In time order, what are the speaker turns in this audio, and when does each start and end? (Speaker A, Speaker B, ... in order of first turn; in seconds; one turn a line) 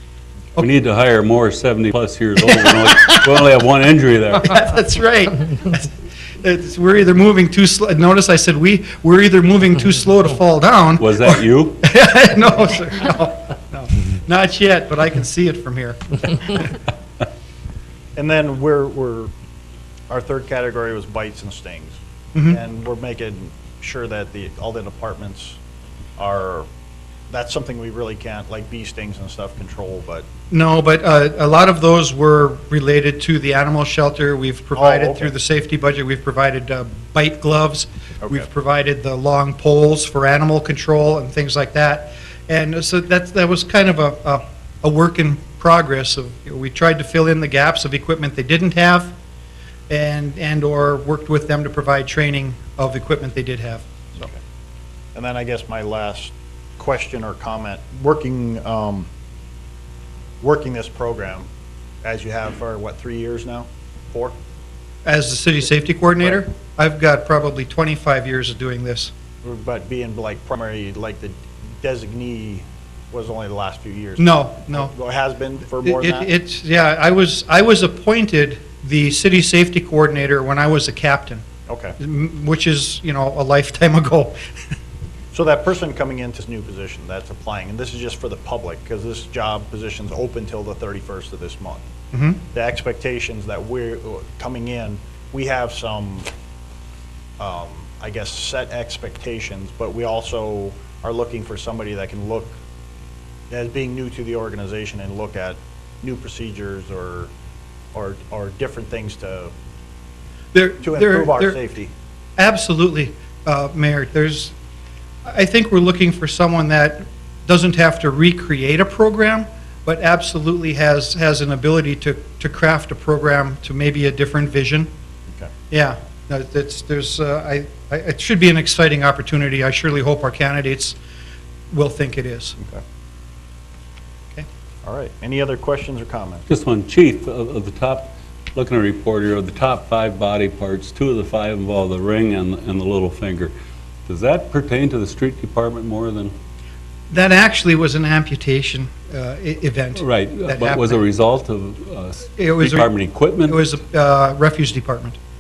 Speaker A: 0.6-4.7
Speaker B: 2.7-3.2
Speaker B: 4.4-16.7
Speaker A: 11.0-11.8
Speaker C: 18.2-19.3
Speaker C: 20.1-25.6
Speaker B: 22.3-22.6
Speaker C: 26.2-26.7
Speaker C: 27.3-30.3
Speaker B: 30.5-49.1
Speaker C: 34.8-35.3
Speaker B: 49.9-54.2
Speaker C: 55.1-59.1
Speaker C: 60.4-61.5
Speaker C: 62.0-64.4
Speaker B: 65.0-69.1
Speaker C: 69.4-76.3
Speaker B: 74.2-74.9
Speaker B: 75.8-81.4
Speaker C: 81.7-82.0
Speaker B: 82.0-84.4
Speaker C: 85.3-91.8
Speaker B: 92.1-92.4
Speaker C: 92.5-96.3
Speaker C: 97.4-102.6
Speaker C: 103.5-107.3
Speaker C: 107.9-109.5
Speaker B: 110.5-111.6
Speaker C: 110.8-111.9
Speaker B: 112.4-114.5
Speaker B: 115.3-124.9
Speaker B: 125.7-131.0
Speaker B: 131.7-132.6
Speaker C: 134.8-136.4
Speaker A: 136.5-143.5
Speaker A: 144.1-146.3
Speaker B: 147.1-151.0
Speaker A: 150.0-153.6
Speaker B: 152.4-152.9
Speaker B: 153.4-155.2